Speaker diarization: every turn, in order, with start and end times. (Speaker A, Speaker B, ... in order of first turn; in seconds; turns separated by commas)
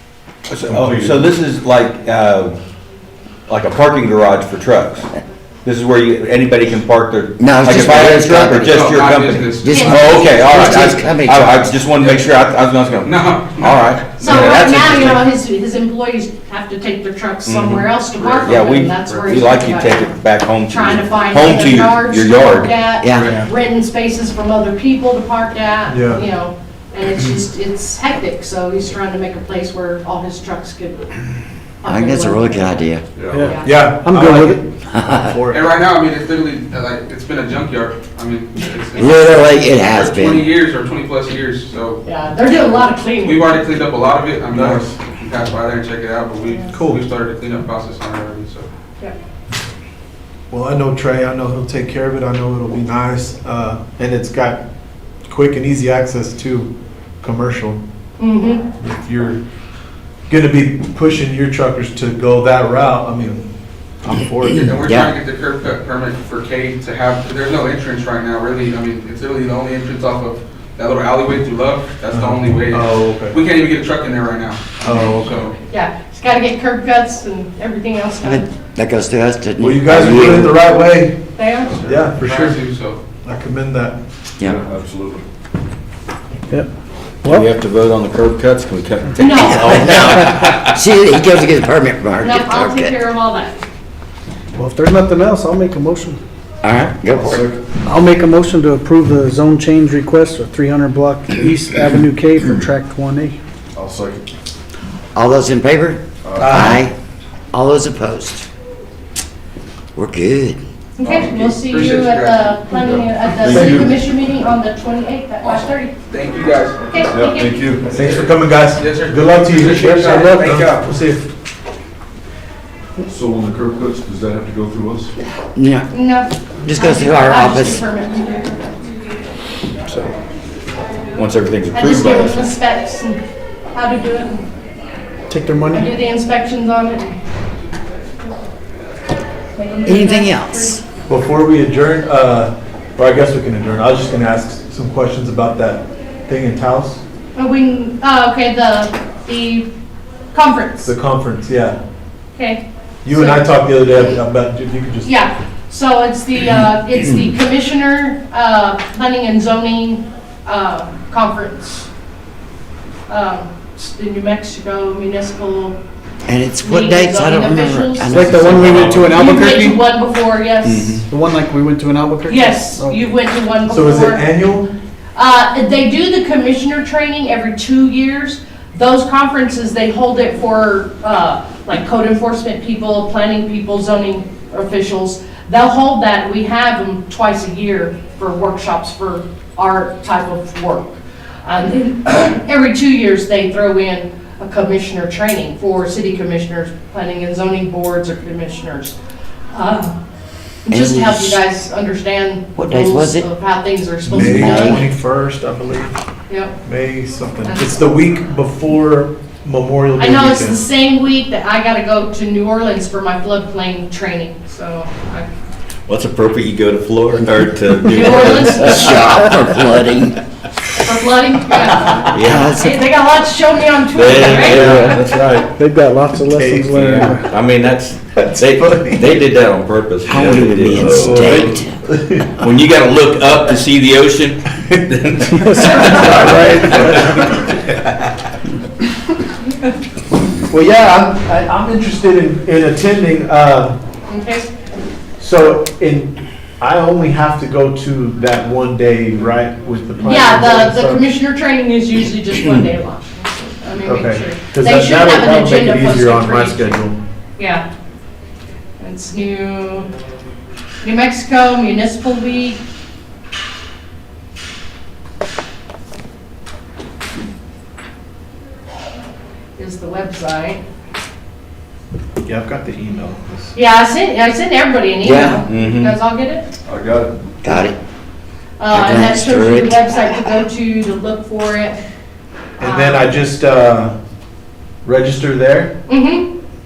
Speaker A: 0.5-2.6, Speaker B: 0.7-1.2, Speaker A: 3.5-5.1, Speaker A: 5.7-15.2, Speaker C: 7.4-9.0, Speaker D: 8.7-9.9, Speaker C: 9.6-11.8, Speaker E: 9.7-10.8, Speaker D: 11.9-12.3, Speaker D: 13.0-15.0, Speaker E: 14.2-31.1, Speaker A: 17.5-17.8, Speaker D: 18.2-19.4, Speaker A: 18.4-22.7, Speaker C: 23.0-23.3, Speaker F: 25.9-26.2, Speaker E: 31.8-32.8, Speaker C: 31.9-33.0, Speaker B: 33.2-33.5, Speaker G: 33.3-34.6, Speaker E: 33.4-33.8, Speaker F: 33.6-35.7, Speaker C: 34.9-35.3, Speaker D: 35.5-42.0, Speaker C: 39.0-40.5, Speaker E: 42.0-43.6, Speaker D: 43.2-48.7, Speaker F: 44.5-44.9, Speaker F: 46.7-47.0, Speaker F: 50.5-54.6, Speaker F: 55.3-56.7, Speaker F: 57.2-57.8, Speaker E: 58.2-58.6, Speaker F: 58.8-59.4, Speaker F: 60.3-63.5, Speaker F: 64.0-64.8, Speaker D: 64.7-75.6, Speaker C: 64.8-65.1, Speaker F: 72.1-73.4, Speaker F: 74.8-75.5, Speaker E: 75.7-78.5, Speaker C: 78.2-80.7, Speaker F: 79.6-81.2, Speaker E: 81.4-81.8, Speaker D: 81.6-83.0, Speaker F: 81.8-82.6, Speaker F: 83.2-84.0, Speaker B: 84.4-85.2, Speaker G: 87.2-87.5, Speaker A: 87.2-90.7, Speaker E: 89.2-90.0, Speaker C: 89.3-92.9, Speaker E: 92.2-93.6, Speaker G: 94.6-96.2, Speaker C: 96.6-97.4, Speaker B: 97.1-97.6, Speaker G: 97.8-103.4, Speaker B: 103.8-104.3, Speaker C: 105.2-106.9, Speaker B: 106.2-106.7, Speaker F: 106.4-106.8, Speaker C: 107.5-108.5, Speaker C: 110.0-110.6, Speaker E: 111.0-116.0, Speaker D: 111.0-112.7, Speaker B: 112.8-113.9, Speaker D: 115.4-116.8, Speaker E: 116.9-117.6, Speaker B: 117.1-118.2, Speaker F: 117.9-121.3, Speaker D: 117.9-120.9, Speaker B: 123.1-125.1, Speaker C: 125.5-125.9, Speaker E: 125.9-128.6, Speaker C: 126.6-127.8, Speaker A: 131.2-132.4, Speaker E: 131.7-133.2, Speaker E: 133.7-134.5, Speaker G: 135.3-135.9, Speaker E: 135.7-137.2, Speaker E: 139.6-140.8, Speaker C: 139.8-140.8, Speaker F: 141.1-147.0, Speaker E: 147.3-149.7, Speaker E: 150.3-150.9, Speaker F: 150.8-151.8, Speaker E: 152.3-154.2, Speaker F: 153.0-155.1, Speaker E: 155.0-161.9, Speaker E: 163.1-165.8, Speaker C: 166.3-169.2, Speaker E: 166.6-170.9, Speaker G: 168.1-169.8, Speaker A: 170.7-171.0, Speaker G: 171.1-173.1, Speaker E: 172.3-174.3, Speaker F: 173.7-174.7, Speaker E: 175.2-198.9, Speaker E: 199.5-199.9, Speaker E: 200.7-204.8, Speaker C: 200.7-201.4, Speaker C: 202.6-203.3, Speaker F: 204.1-205.9, Speaker C: 204.1-204.8, Speaker E: 206.3-206.6, Speaker F: 206.6-210.6, Speaker E: 207.5-207.7, Speaker E: 210.0-215.3, Speaker A: 215.9-219.2, Speaker E: 217.9-219.1, Speaker C: 218.4-220.2, Speaker E: 220.8-224.7, Speaker A: 222.1-222.5, Speaker C: 222.2-222.8, Speaker A: 223.9-225.0, Speaker F: 224.1-225.5, Speaker G: 224.3-227.3, Speaker F: 226.3-227.2, Speaker A: 226.9-231.6, Speaker F: 228.2-229.2, Speaker C: 230.0-231.8, Speaker F: 230.7-232.3, Speaker A: 232.4-237.5, Speaker G: 235.4-236.8, Speaker F: 235.8-237.4, Speaker F: 240.4-243.8, Speaker E: 244.1-244.5, Speaker F: 245.2-251.1, Speaker E: 250.0-256.8, Speaker F: 253.8-257.0, Speaker E: 257.4-257.6, Speaker E: 258.8-259.9, Speaker E: 260.8-262.6, Speaker E: 269.6-270.6, Speaker F: 272.2-273.5, Speaker E: 273.5-276.5, Speaker C: 275.0-275.5, Speaker A: 275.5-275.9, Speaker B: 276.7-277.1, Speaker C: 277.4-277.8, Speaker E: 278.6-281.8, Speaker C: 278.7-279.8, Speaker E: 282.6-283.1, Speaker F: 282.6-284.0, Speaker F: 284.8-285.8, Speaker E: 285.9-286.3